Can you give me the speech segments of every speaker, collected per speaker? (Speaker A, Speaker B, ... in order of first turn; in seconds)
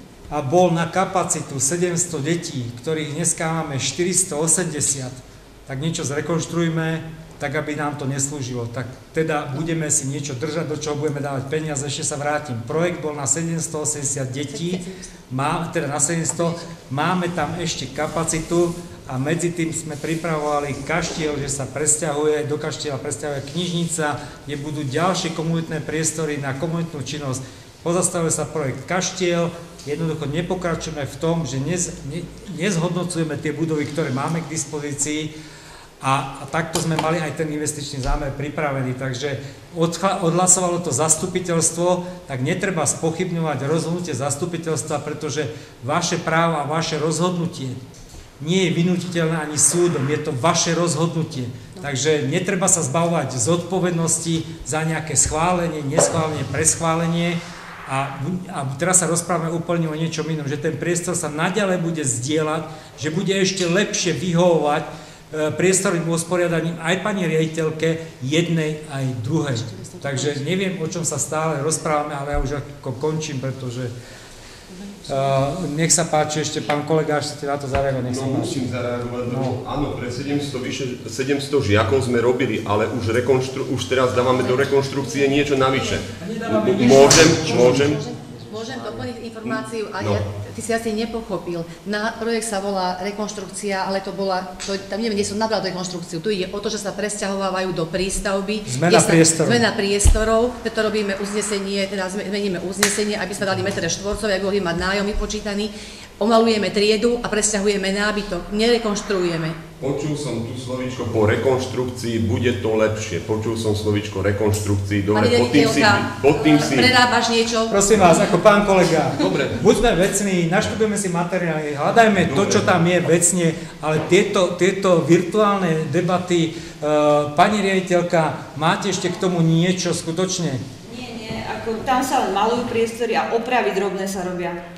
Speaker A: 0.3-35.3, 36.0-47.8, 48.4-73.9, 75.1-78.7, 79.2-79.6, 86.2-88.4, 98.7-99.6, 117.7-130.6
Speaker B: 14.5-14.9, 69.6-70.4, 74.7-75.3, 84.4-85.9, 87.3-109.6, 115.1-117.8
Speaker C: 78.0-88.0, 109.8-116.9
Speaker D: 130.8-134.6